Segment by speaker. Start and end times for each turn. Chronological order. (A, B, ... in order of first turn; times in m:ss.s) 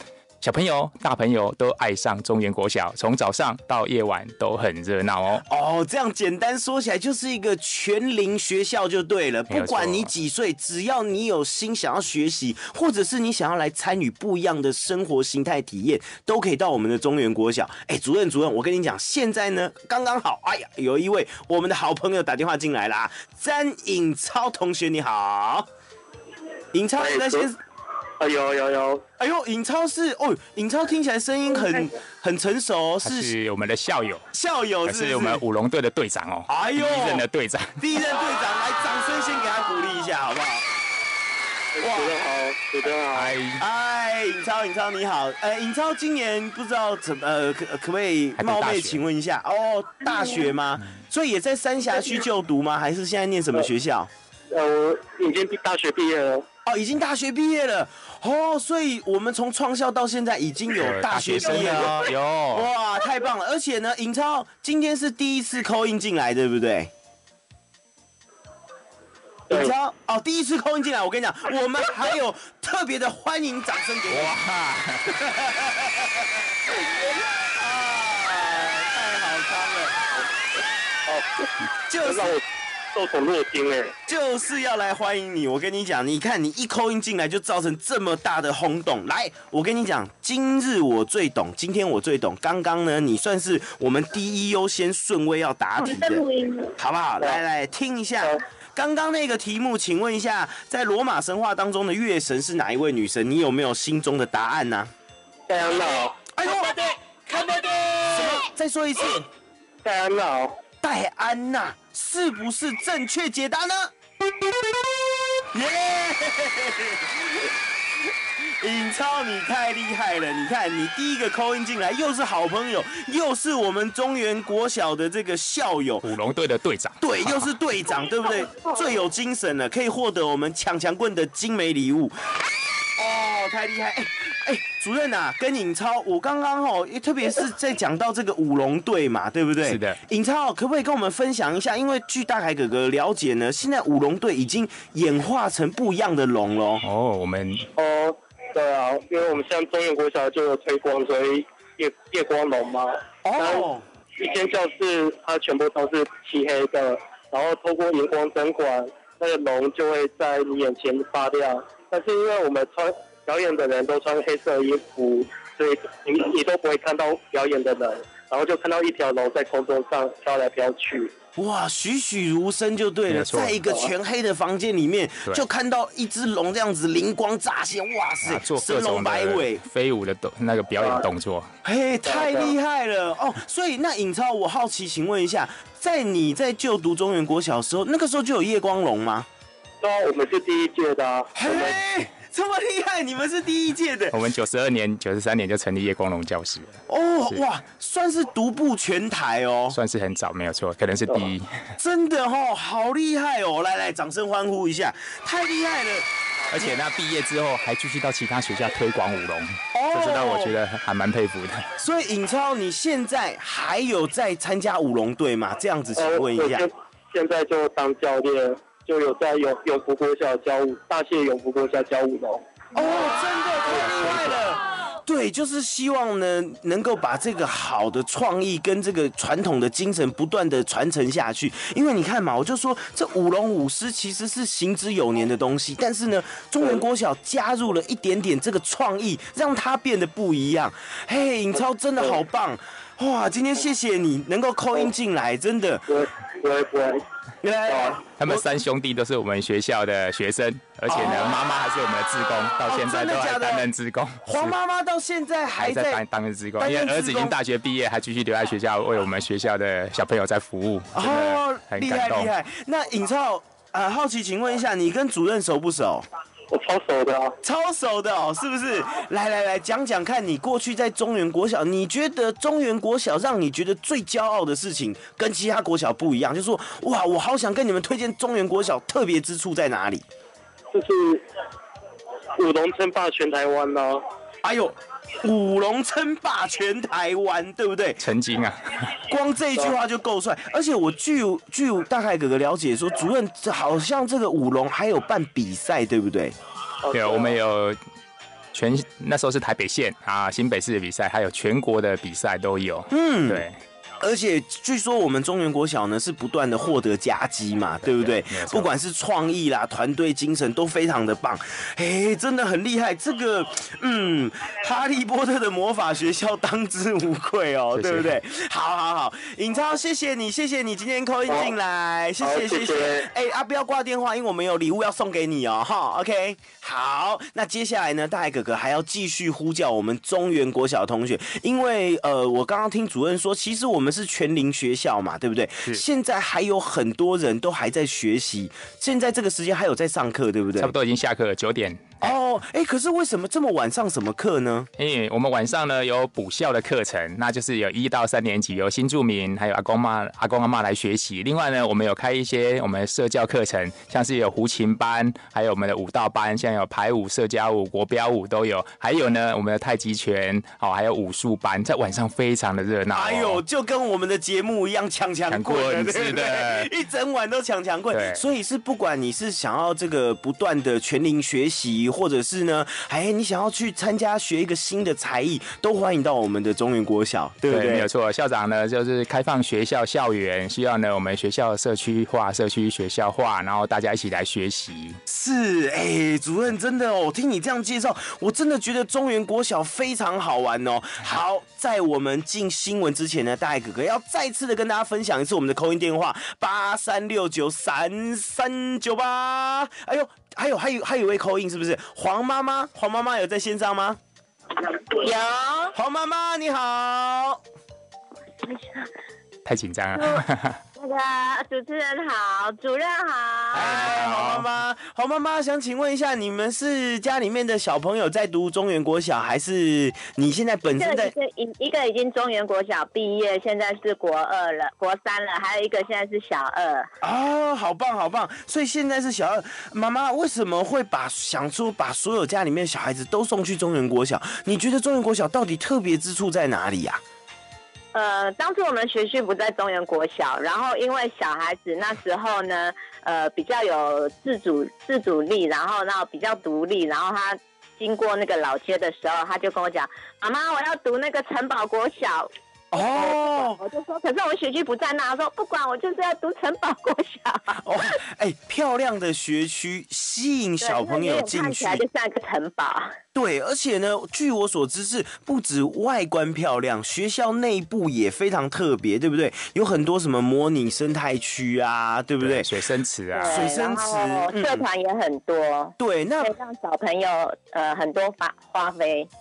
0:00.4-0:05.4 A
0:05.5-0:25.7 B
0:09.5-0:10.1 A
0:26.7-0:27.6 B
0:27.0-0:27.5 C
0:28.2-0:29.0 C
0:29.2-0:33.3 B
0:33.0-0:34.2 A
0:34.3-0:35.4 B
0:34.9-0:37.8 A
0:36.5-0:37.2 B
0:37.8-0:40.7 B
0:41.8-0:43.4 C
0:41.8-0:42.2 B
0:43.1-0:43.6 A
0:43.6-0:54.1 B
0:48.4-0:49.0 A
0:54.5-0:56.4 C
0:56.7-1:06.9 B
1:00.8-1:02.7 A
1:09.5-1:14.3 B
1:14.1-1:15.1 A
1:15.1-1:16.5 B
1:17.5-1:20.0 B
1:21.9-1:22.4 B
1:22.0-1:22.4 C
1:22.9-1:23.9 C
1:24.1-1:36.2 B
1:36.0-1:36.7 C
1:36.8-1:44.9 B
1:45.5-1:46.3 C
1:46.4-1:49.3 B
1:49.8-1:50.5 C
1:50.8-1:53.9 B
1:55.5-2:06.1 B
2:06.0-2:07.5 A
2:07.0-2:12.4 B
2:13.0-2:26.8 B
2:19.6-2:20.0 A
2:26.8-2:27.7 A
2:27.8-2:51.1 C
2:33.2-2:33.8 B
2:51.4-2:59.6 B
2:53.1-2:53.6 A
2:58.2-3:01.5 A
3:01.6-3:09.3 B
3:02.1-3:02.5 C
3:09.8-3:11.8 C
3:11.4-3:14.2 B
3:14.1-3:16.8 A
3:16.9-3:19.8 B
3:19.7-3:21.7 A
3:21.8-3:26.8 B
3:26.5-3:31.6 A
3:29.7-3:30.5 B
3:31.8-3:36.7 B
3:36.0-3:42.4 C
3:42.8-4:05.9 B
3:44.0-3:44.4 A
4:05.9-4:07.0 C
4:07.4-4:08.4 B
4:07.7-4:08.0 C
4:08.2-4:14.5 A
4:10.9-4:11.4 B
4:12.6-4:13.7 B
4:14.2-4:16.0 B
4:15.6-4:22.3 A
4:16.6-4:17.4 B
4:20.9-4:26.0 B
4:26.5-4:27.4 C
4:27.4-4:40.0 B
4:40.7-4:41.2 C
4:42.4-4:44.0 C
4:44.4-4:48.0 B
4:48.0-4:49.0 A
4:49.1-4:56.3 B
4:56.8-4:57.4 C
4:56.9-4:57.8 A
4:58.5-5:03.6 A
5:02.9-5:03.4 B
5:04.0-5:40.7 B
5:07.9-5:08.7 A
5:17.7-5:18.2 A
5:22.2-5:23.1 C
5:40.6-5:42.1 A
5:42.0-5:44.7 B
5:44.8-6:03.4 A
6:02.9-6:17.9 B
6:05.3-6:06.7 A
6:07.9-6:08.2 A
6:17.5-6:25.0 A
6:25.1-6:44.0 B
6:44.6-6:45.7 D
6:45.7-6:47.4 B
6:48.4-6:48.9 D
6:49.4-6:50.6 A
6:50.0-6:50.2 D
6:50.8-6:53.6 D
6:53.5-6:54.4 A
6:53.5-7:01.1 B
7:00.8-7:06.9 D
7:07.0-7:17.0 B
7:17.9-7:38.0 D
7:32.7-7:33.6 B
7:37.6-7:41.8 B
7:40.6-7:43.0 D
7:43.1-7:52.5 B
7:52.2-7:53.5 A
7:53.1-7:59.1 D
7:53.3-7:54.6 B
7:55.8-7:56.4 B